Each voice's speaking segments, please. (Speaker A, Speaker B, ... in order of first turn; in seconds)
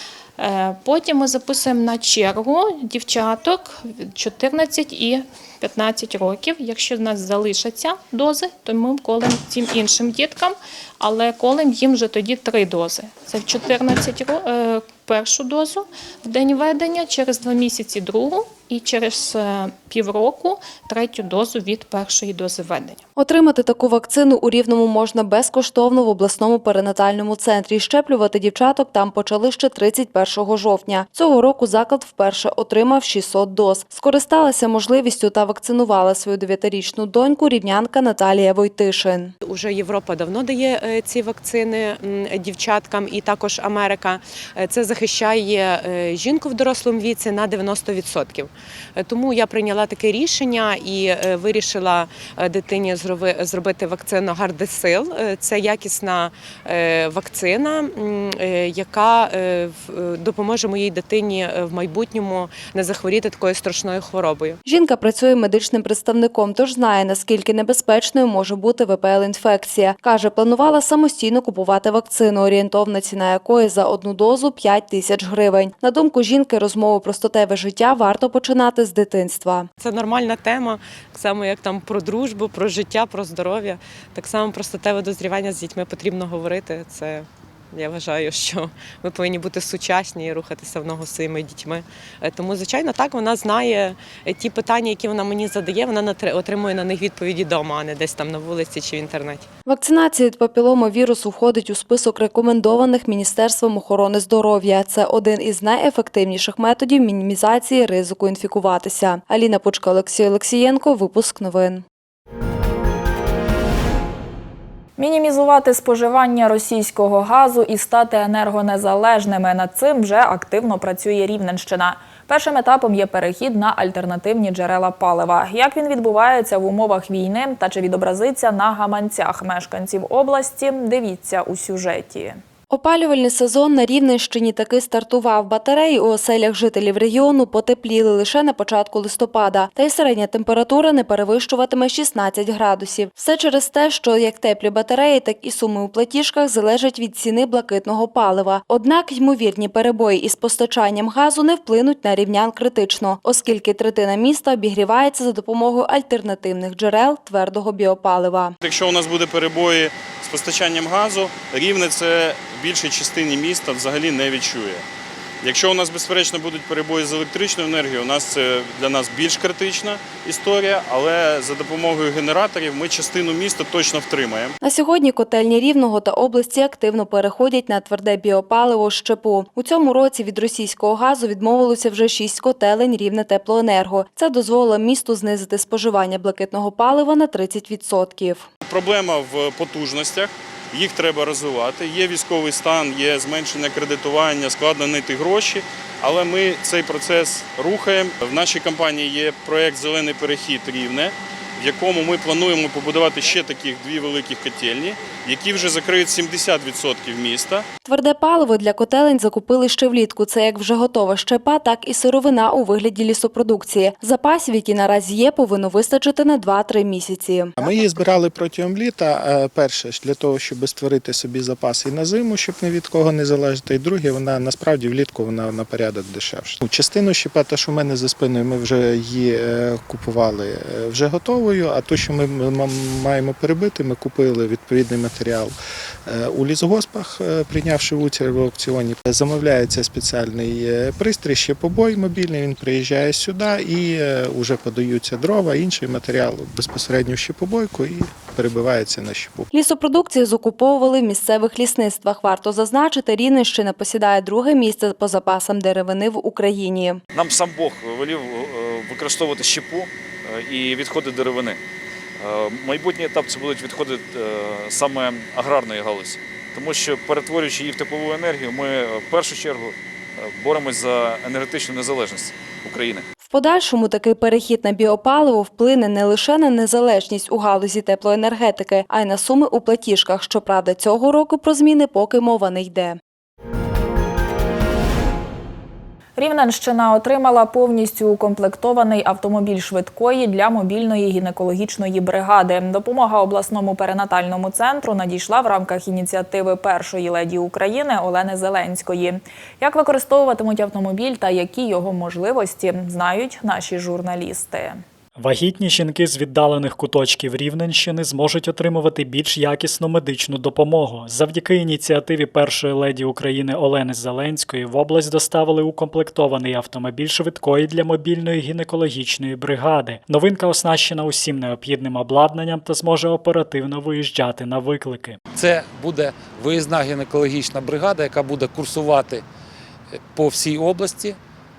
Speaker A: 0.4-23.0
Speaker B: 23.2-39.3, 64.7-79.7, 99.7-111.8, 132.7-158.5, 174.6-188.5, 207.8-217.5, 249.5-257.0, 273.2-283.0
Speaker C: 39.4-64.6, 79.8-99.5
Speaker D: 115.0-132.4, 286.1-304.8
Speaker E: 158.6-164.8, 165.4-174.5, 188.6-207.6
Speaker F: 217.6-235.6, 236.1-249.5
Speaker G: 257.1-261.6, 262.2-273.1
Speaker H: 305.2-325.2
Speaker I: 325.3-329.2, 329.9-331.2